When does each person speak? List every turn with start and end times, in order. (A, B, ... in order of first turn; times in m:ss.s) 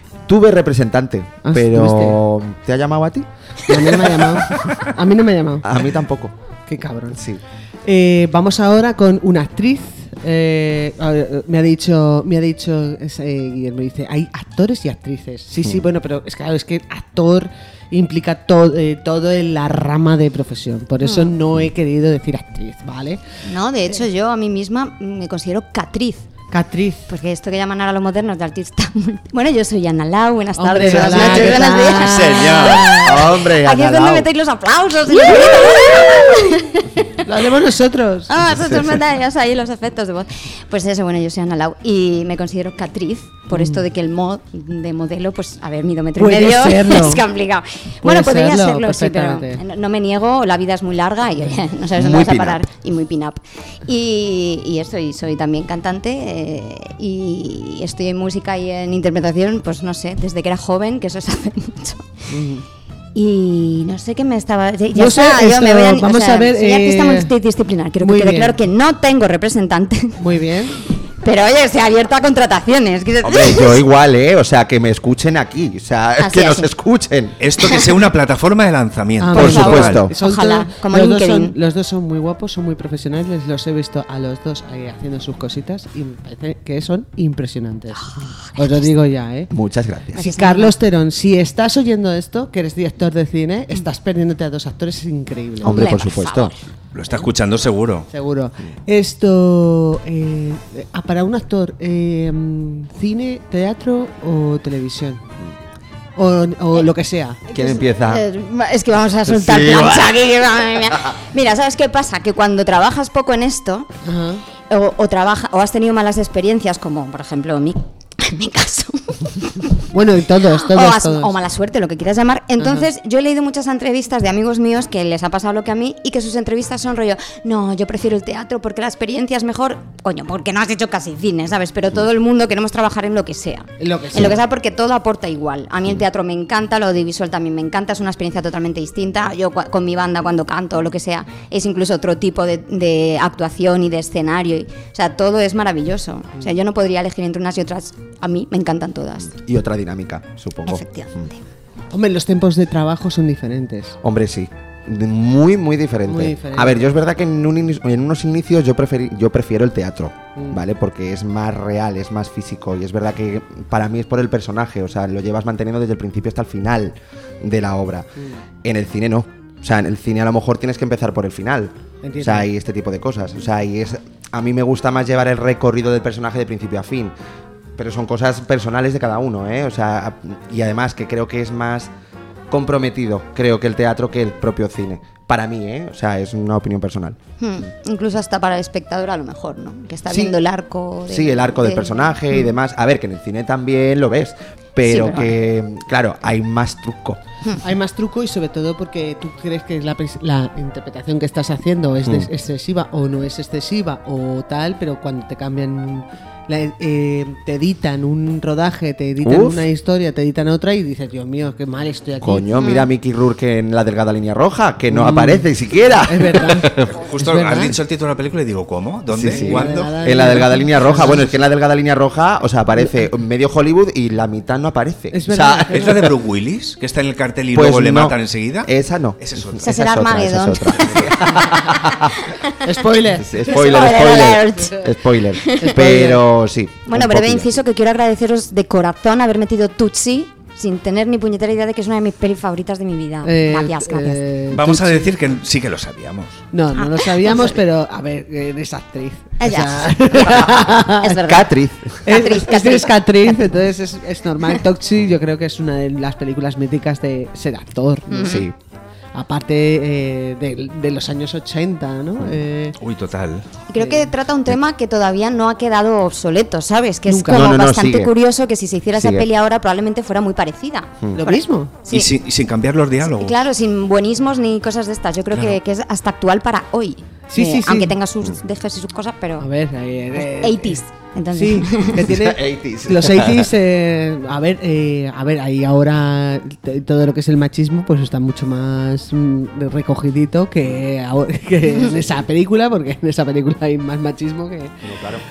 0:00.3-0:04.1 A
0:01.4-0:02.2 B
0:03.7-0:05.7 B
0:05.6-0:06.3 A
0:06.7-0:07.2 B
0:07.1-0:07.4 A
0:07.8-0:23.2 B
0:15.6-0:15.9 A
0:21.0-0:21.3 C
0:23.4-0:26.3 C
0:26.5-0:27.1 B
0:27.1-0:37.2 C
0:30.6-0:33.2 B
0:30.9-0:32.9 D
0:33.0-0:34.3 A
0:37.2-0:38.3 B
0:38.3-1:02.1 C
0:38.5-0:38.9 A
0:43.5-0:43.8 B
0:46.2-0:47.2 B
0:48.0-0:49.6 B
0:52.0-0:52.6 A
1:02.3-1:02.6 B
1:03.1-1:10.2 C
1:04.9-1:07.3 B
1:08.0-1:08.6 B
1:10.2-1:10.8 B
1:11.2-1:13.8 C
1:13.2-1:17.4 A
1:16.2-1:16.7 C
1:17.4-1:20.0 D
1:19.2-1:29.5 B
1:19.3-1:20.1 A
1:19.4-1:21.5 C
1:28.0-1:28.9 C
1:29.5-1:30.3 A
1:30.2-1:35.8 B
1:30.2-1:30.7 C
1:35.6-1:36.5 A
1:35.6-1:36.6 C
1:36.9-1:38.1 D
1:38.1-1:45.2 B
1:46.2-1:47.5 B
1:47.5-1:48.2 A
1:47.7-1:53.9 C
1:49.3-1:50.2 A
1:54.0-1:54.4 B
1:54.7-1:59.9 C
1:59.9-2:01.3 B
2:00.5-2:29.3 C
2:02.6-2:02.9 B
2:13.8-2:14.4 B
2:29.4-2:31.3 A
2:30.6-2:31.4 C
2:31.9-2:34.0 B
2:34.0-2:48.1 A
2:36.1-2:36.9 B
2:48.6-2:57.1 A
2:52.0-2:52.5 B
2:57.8-3:01.9 A
3:02.5-3:07.2 A
3:07.4-3:12.5 C
3:10.1-3:10.4 A
3:11.1-3:17.2 A
3:14.8-3:15.3 C
3:17.6-3:32.4 B
3:22.0-3:22.3 A
3:29.2-3:29.7 A
3:32.2-3:37.0 A
3:32.6-3:32.9 C
3:34.9-3:37.8 B
3:37.0-3:39.9 D
3:39.1-3:46.1 A
3:39.2-3:41.3 B
3:45.1-3:46.0 B
3:45.7-3:49.6 D
3:47.5-3:52.1 A
3:49.6-3:51.2 C
3:52.6-3:53.4 B
3:53.2-3:57.6 A
3:53.4-3:54.8 C
3:55.4-3:55.7 C
3:55.6-3:56.2 B
3:56.8-4:04.2 C
4:03.2-4:05.1 B
4:04.5-4:06.4 D
4:06.5-4:11.2 B
4:06.8-4:07.6 C
4:09.4-4:11.5 C
4:11.2-4:12.0 A
4:12.0-4:18.4 B
4:12.0-4:13.4 C
4:18.1-4:18.4 C
4:18.2-4:18.5 A
4:19.1-4:22.8 B
4:22.8-4:23.4 D
4:23.7-4:32.1 C
4:23.8-4:24.1 B
4:27.1-4:27.5 B
4:27.3-4:28.1 A
4:29.0-4:29.2 A
4:31.1-4:31.7 B
4:31.9-4:33.4 D
4:33.2-4:39.4 C
4:37.3-4:37.9 B
4:39.4-4:40.8 B
4:40.4-4:42.0 C
4:41.3-4:54.7 B
4:42.0-4:43.5 A
4:54.9-4:55.2 A